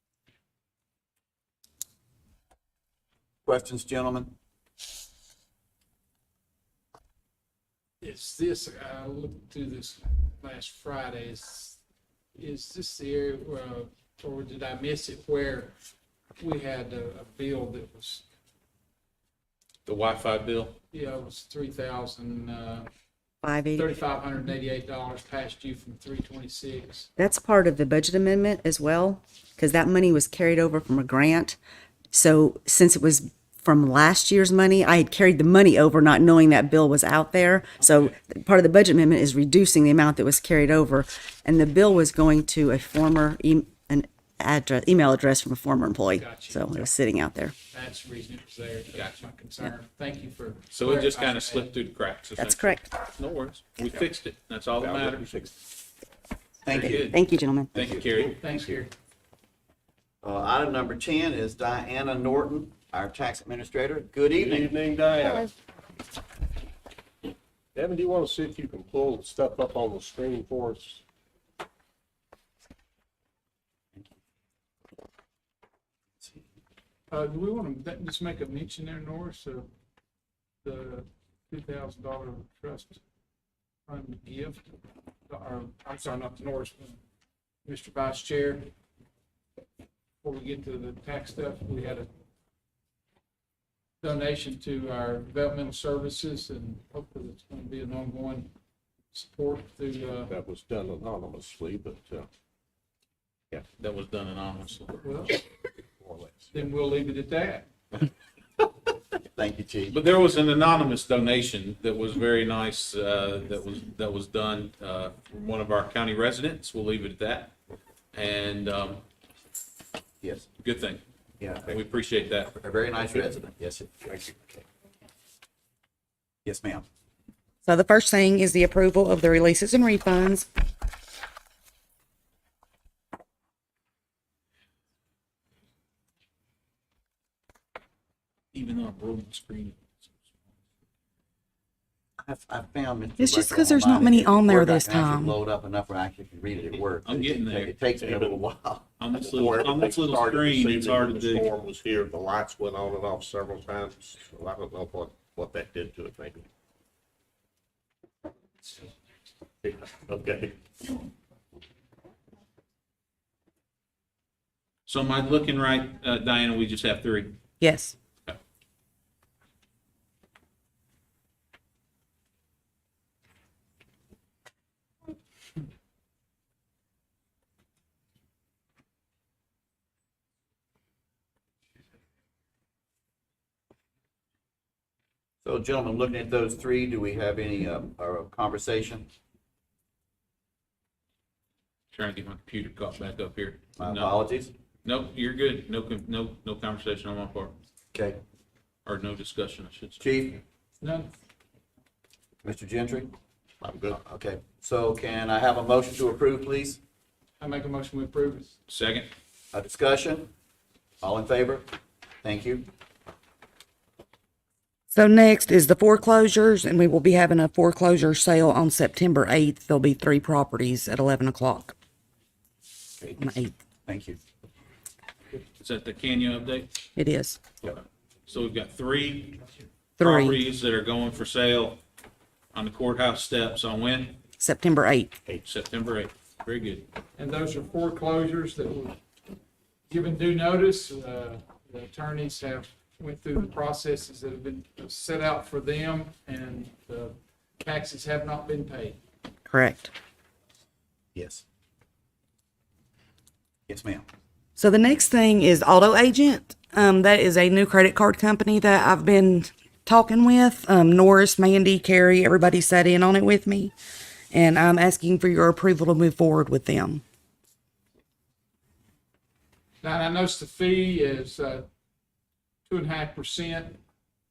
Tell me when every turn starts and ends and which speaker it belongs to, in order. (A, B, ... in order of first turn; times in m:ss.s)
0:03.4-0:04.3 A
0:08.0-0:11.8 B
0:12.4-0:15.8 B
0:16.4-0:18.2 B
0:19.9-0:20.8 C
0:20.9-0:22.9 B
0:23.4-0:23.9 D
0:23.8-0:27.1 B
0:27.2-0:31.6 D
0:32.1-0:47.5 D
0:46.1-0:46.9 B
0:47.7-0:51.8 B
0:50.7-0:55.3 C
0:52.4-0:52.9 D
0:54.8-0:55.5 E
0:56.6-0:57.1 A
0:56.7-0:57.2 C
0:56.9-0:57.7 D
0:57.7-0:58.3 C
0:57.7-0:58.3 A
0:58.4-0:58.9 B
1:00.2-1:04.7 A
1:04.3-1:05.5 E
1:07.8-1:11.0 E
1:17.1-1:19.7 B
1:20.6-1:23.0 B
1:23.9-1:24.8 B
1:25.3-1:27.0 B
1:27.6-1:28.7 B
1:30.2-1:32.1 B
1:34.0-1:38.5 B
1:39.1-1:40.3 B
1:40.3-1:42.3 E
1:43.8-1:45.0 C
1:45.0-1:45.4 B
1:46.0-1:46.6 E
1:46.5-1:47.7 B
1:49.2-1:50.0 A
1:49.9-1:57.6 C
1:58.1-1:59.0 C
2:00.2-2:00.5 A
2:00.6-2:01.0 C
2:01.4-2:01.8 A
2:01.7-2:02.6 C
2:02.6-2:04.6 A
2:06.4-2:06.8 A
2:07.6-2:10.5 F
2:18.5-2:20.5 C
2:22.2-2:28.8 A
2:23.2-2:25.4 F
2:27.0-2:27.8 C
2:27.9-2:28.4 E
2:29.0-2:31.5 C
2:29.2-2:36.5 E
2:39.6-2:40.6 E
2:44.9-2:47.4 C
2:47.6-2:47.9 F
3:05.4-3:09.1 A
3:11.9-3:14.2 C
3:13.8-3:14.5 A
3:14.8-3:17.6 C
3:17.9-3:18.2 A
3:18.9-3:20.1 C
3:20.0-3:20.4 A
3:20.8-3:21.1 B
3:22.4-3:23.1 A
3:23.6-3:24.0 E
3:23.9-3:26.8 A
3:27.4-3:28.5 B
3:28.7-3:29.1 C
3:29.5-3:30.3 A
3:31.0-3:31.7 A
3:32.2-3:32.7 A
3:34.9-3:41.7 F
3:43.2-3:43.5 F
3:43.9-3:44.2 A
3:45.6-3:46.7 C
3:47.0-3:47.4 F
3:47.6-3:49.4 C
3:50.0-3:51.8 C
3:50.0-3:50.4 F
3:52.5-3:54.2 C
3:54.4-3:55.2 F
3:55.4-3:56.9 C
3:57.2-3:59.0 B
3:59.9-4:09.0 B
4:09.5-4:09.9 F
4:11.2-4:11.4 A
4:13.7-4:14.0 A
4:14.6-4:23.7 F
4:24.3-4:27.0 F
4:29.8-4:31.7 B
4:32.7-4:33.8 B